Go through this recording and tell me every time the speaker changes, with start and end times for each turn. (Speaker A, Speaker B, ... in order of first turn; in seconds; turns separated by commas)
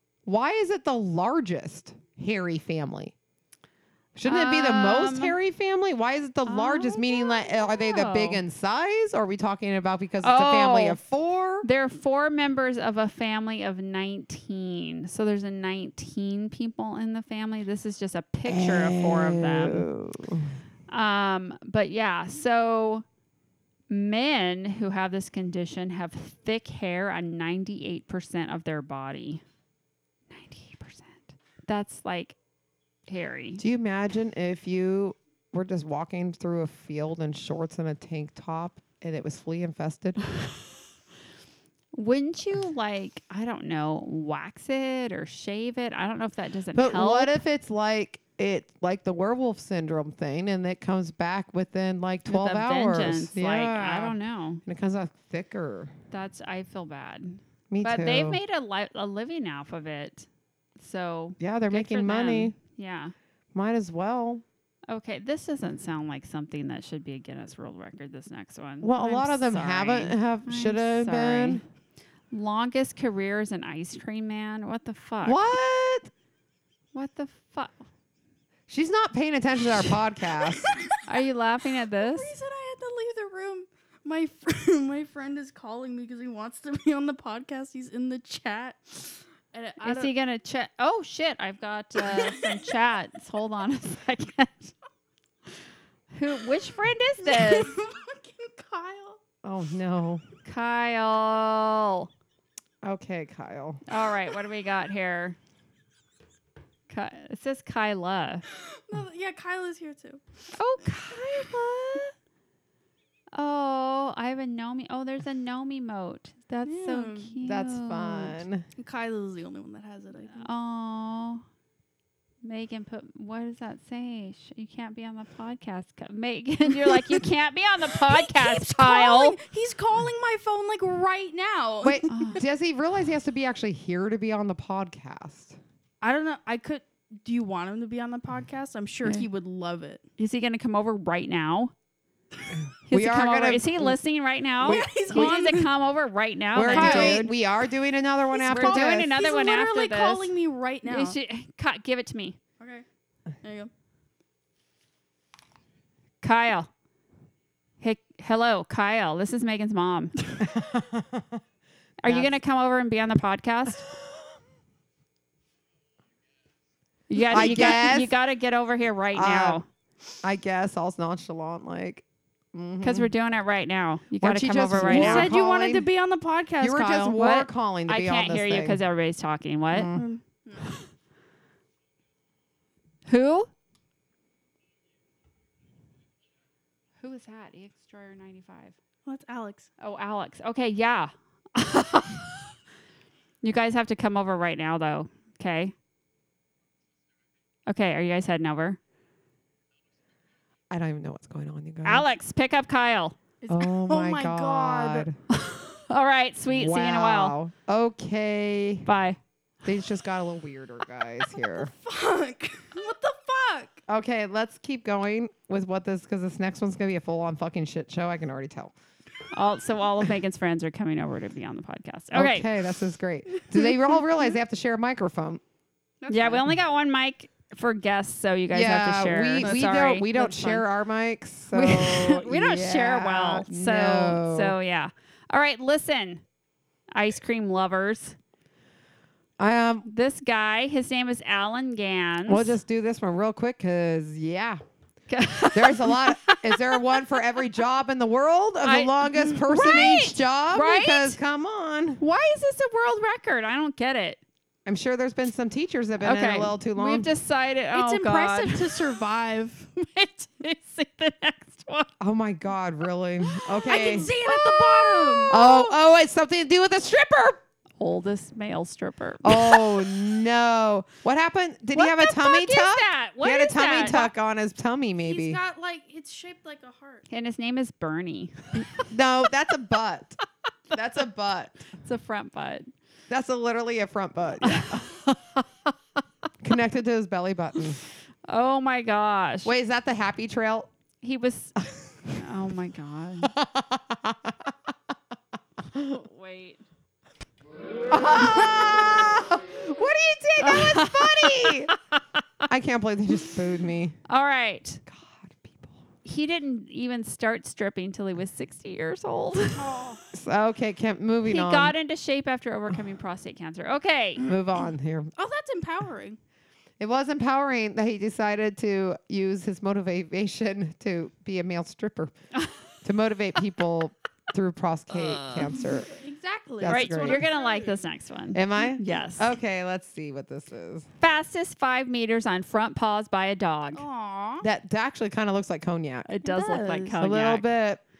Speaker A: 0.2-3.1, Speaker A: 4.1-11.7, Speaker B: 4.2-5.3, Speaker B: 6.5-8.4, Speaker B: 10.2-11.0, Speaker B: 11.6-19.9, Speaker A: 18.4-20.5, Speaker B: 20.9-23.0, Speaker B: 23.9-29.4, Speaker B: 30.3-32.3, Speaker B: 33.1-33.6, Speaker A: 33.6-40.2, Speaker B: 41.9-47.4, Speaker A: 46.7-55.9, Speaker B: 52.2-54.6, Speaker B: 56.1-60.3, Speaker A: 57.7-58.4, Speaker B: 60.8-63.1, Speaker A: 61.4-62.6, Speaker A: 63.5-64.4, Speaker B: 64.9-71.6, Speaker A: 68.8-71.6, Speaker B: 72.3-75.4, Speaker A: 75.2-76.1, Speaker B: 76.9-77.8, Speaker A: 78.7-80.7, Speaker C: 80.4-81.0, Speaker B: 81.0-82.3, Speaker C: 81.9-90.1, Speaker B: 89.8-94.7, Speaker C: 92.0-92.7, Speaker B: 96.1-97.8, Speaker C: 97.2-99.2, Speaker A: 99.4-100.2, Speaker B: 100.4-102.1, Speaker A: 102.8-103.8, Speaker B: 103.9-105.4, Speaker B: 106.9-108.4, Speaker C: 108.5-110.2, Speaker B: 110.5-112.1, Speaker B: 113.3-118.4, Speaker C: 116.7-117.3, Speaker A: 117.4-118.7, Speaker C: 118.8-120.5, Speaker B: 120.3-121.4, Speaker B: 122.4-129.4, Speaker C: 126.8-127.1, Speaker C: 127.8-132.3, Speaker A: 131.8-135.6, Speaker B: 132.1-132.4, Speaker C: 136.0-140.0, Speaker B: 140.2-141.7, Speaker B: 142.9-147.3, Speaker A: 142.9-144.0, Speaker C: 144.6-145.7, Speaker A: 144.6-145.3, Speaker A: 146.5-149.1, Speaker C: 146.6-147.3, Speaker C: 148.3-151.2, Speaker B: 148.5-150.3, Speaker B: 150.8-152.4, Speaker C: 152.6-152.8, Speaker C: 153.4-153.7, Speaker B: 156.2-156.7, Speaker B: 157.8-160.2, Speaker A: 160.4-161.4, Speaker B: 162.0-163.8, Speaker A: 162.0-162.3, Speaker B: 167.1-169.6, Speaker C: 167.2-167.9, Speaker A: 167.3-168.1, Speaker A: 169.1-169.6, Speaker A: 170.2-173.1, Speaker B: 172.8-175.3, Speaker A: 174.2-175.9, Speaker C: 174.8-177.2, Speaker A: 176.6-178.8, Speaker B: 177.1-180.0, Speaker A: 179.7-180.1, Speaker C: 179.9-180.7, Speaker B: 183.1-183.5, Speaker B: 187.0-188.7, Speaker C: 189.1-189.7, Speaker B: 189.8-192.5, Speaker B: 193.4-195.7, Speaker B: 197.7-198.8, Speaker A: 200.7-202.1, Speaker B: 201.8-203.2, Speaker C: 203.4-205.1, Speaker A: 203.5-205.2, Speaker B: 205.3-207.3, Speaker A: 206.5-208.9, Speaker B: 208.8-209.2, Speaker A: 209.6-211.7, Speaker C: 211.3-213.8, Speaker A: 213.9-218.7, Speaker B: 219.3-222.5, Speaker A: 222.1-225.4, Speaker C: 226.0-226.5, Speaker B: 226.1-230.6, Speaker A: 228.5-234.6, Speaker C: 229.4-229.7, Speaker B: 231.5-236.2, Speaker B: 236.9-238.2, Speaker A: 239.4-239.8, Speaker B: 239.8-242.6, Speaker A: 242.3-244.6, Speaker B: 245.1-247.2, Speaker A: 245.4-252.0, Speaker B: 248.6-251.2, Speaker B: 252.0-254.2, Speaker A: 254.7-257.1, Speaker B: 256.0-259.0, Speaker C: 257.7-260.2, Speaker B: 260.3-261.9, Speaker A: 262.0-264.1, Speaker B: 263.6-265.6, Speaker C: 263.6-265.7, Speaker A: 265.3-267.4, Speaker B: 267.8-269.9, Speaker A: 269.2-275.4, Speaker B: 271.7-274.1, Speaker C: 275.0-277.1, Speaker B: 277.1-278.9, Speaker A: 278.7-280.2, Speaker A: 280.7-281.6, Speaker B: 281.8-282.7, Speaker A: 283.1-284.9, Speaker B: 284.3-285.2, Speaker A: 286.4-287.8, Speaker B: 288.3-289.5, Speaker A: 289.4-290.7, Speaker B: 291.0-293.3, Speaker A: 293.2-294.5, Speaker B: 295.7-296.6, Speaker A: 297.9-301.7, Speaker B: 300.4-302.0, Speaker A: 302.5-303.9, Speaker B: 304.1-304.8, Speaker A: 304.9-305.7, Speaker B: 306.0-309.7, Speaker C: 309.6-310.0, Speaker A: 310.1-311.7, Speaker B: 311.2-314.3, Speaker A: 314.2-315.1, Speaker C: 315.1-316.2, Speaker A: 316.8-322.1, Speaker A: 322.8-325.9, Speaker B: 324.9-325.5, Speaker C: 325.9-327.8, Speaker A: 326.6-327.2, Speaker B: 326.7-329.3, Speaker A: 328.3-330.9, Speaker B: 331.0-333.8, Speaker C: 333.7-334.4, Speaker A: 334.4-336.1, Speaker B: 336.1-337.5, Speaker C: 336.2-336.9, Speaker A: 336.9-337.8